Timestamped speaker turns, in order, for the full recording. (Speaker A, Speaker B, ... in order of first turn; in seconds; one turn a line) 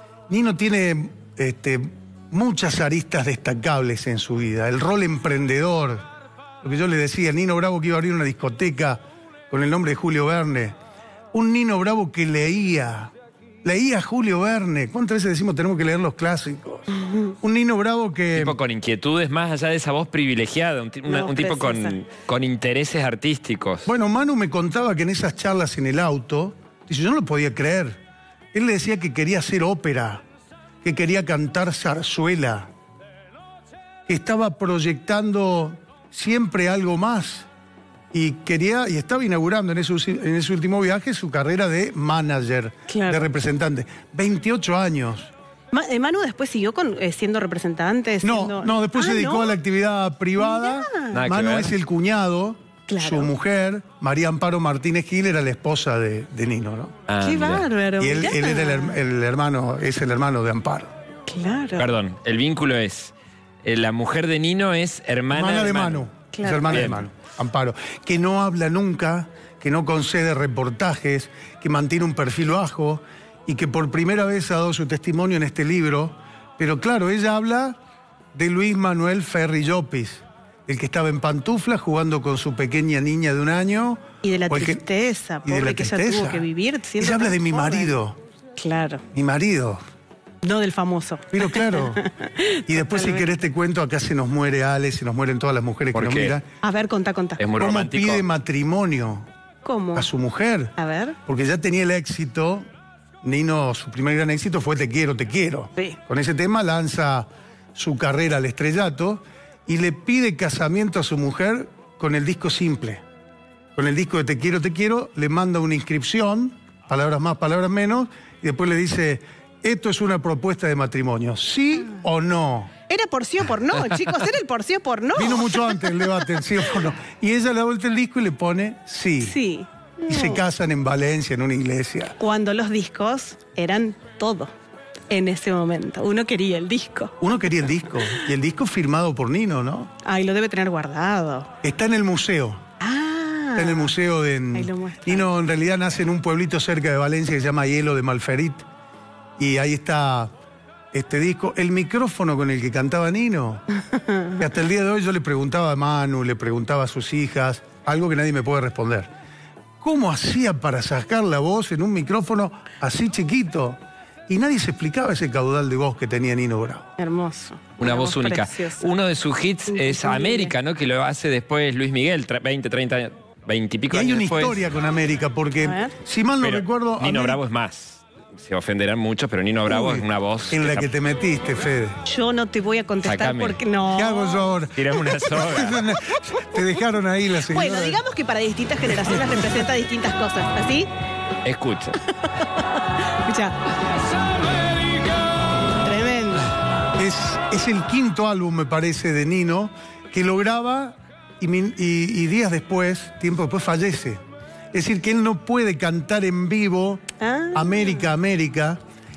Speaker A: 0.3-6.0
Speaker A: 6.6-10.8
Speaker A: 11.3-13.1
Speaker A: 13.6-16.9
Speaker A: 17.4-18.6
Speaker B: 18.4-23.9
Speaker C: 21.1-22.0
Speaker A: 23.9-28.0
Speaker A: 28.5-30.2
Speaker A: 30.8-32.7
Speaker A: 34.1-37.5
Speaker A: 38.1-45.3
Speaker C: 42.9-43.2
Speaker C: 45.7-49.6
Speaker A: 48.2-57.0
Speaker C: 50.4-51.2
Speaker B: 51.1-51.7
Speaker C: 52.9-53.3
Speaker B: 57.1-57.7
Speaker C: 57.2-59.0
Speaker A: 58.0-60.9
Speaker C: 61.3-61.9
Speaker B: 61.8-66.1
Speaker A: 65.3-77.8
Speaker C: 66.3-66.9
Speaker B: 66.7-67.0
Speaker A: 78.3-84.8
Speaker C: 84.2-88.0
Speaker A: 85.4-86.5
Speaker A: 87.0-88.2
Speaker C: 88.6-89.0
Speaker A: 89.1-89.8
Speaker C: 90.4-93.3
Speaker A: 91.3-92.0
Speaker A: 92.7-96.5
Speaker B: 95.9-96.4
Speaker C: 96.6-97.4
Speaker B: 97.4-98.2
Speaker A: 97.6-99.3
Speaker C: 99.7-100.1
Speaker A: 100.0-100.7
Speaker C: 100.8-101.2
Speaker A: 101.3-102.7
Speaker A: 103.2-113.0
Speaker A: 113.8-122.7
Speaker C: 122.8-126.2
Speaker A: 125.2-129.3
Speaker C: 129.2-130.4
Speaker A: 130.1-132.2
Speaker C: 132.2-134.5
Speaker C: 135.1-137.2
Speaker A: 137.2-139.9
Speaker C: 140.0-141.5
Speaker A: 141.6-142.6
Speaker C: 142.8-143.9
Speaker A: 143.6-148.7
Speaker C: 144.5-145.3
Speaker A: 149.4-150.3
Speaker A: 150.9-153.6
Speaker C: 154.0-154.3
Speaker A: 154.4-159.1
Speaker A: 159.8-166.9
Speaker C: 167.0-168.9
Speaker B: 167.8-174.6
Speaker C: 169.7-170.5
Speaker A: 173.9-177.4
Speaker C: 175.6-175.9
Speaker B: 176.4-180.9
Speaker A: 179.7-182.0
Speaker C: 182.1-184.5
Speaker B: 183.0-183.6
Speaker A: 183.9-188.0
Speaker B: 184.7-185.8
Speaker C: 187.5-190.9
Speaker B: 191.4-192.0
Speaker C: 193.2-193.6
Speaker C: 195.8-196.5
Speaker A: 197.0-204.2
Speaker A: 204.7-207.0
Speaker C: 207.2-208.1
Speaker A: 207.5-208.8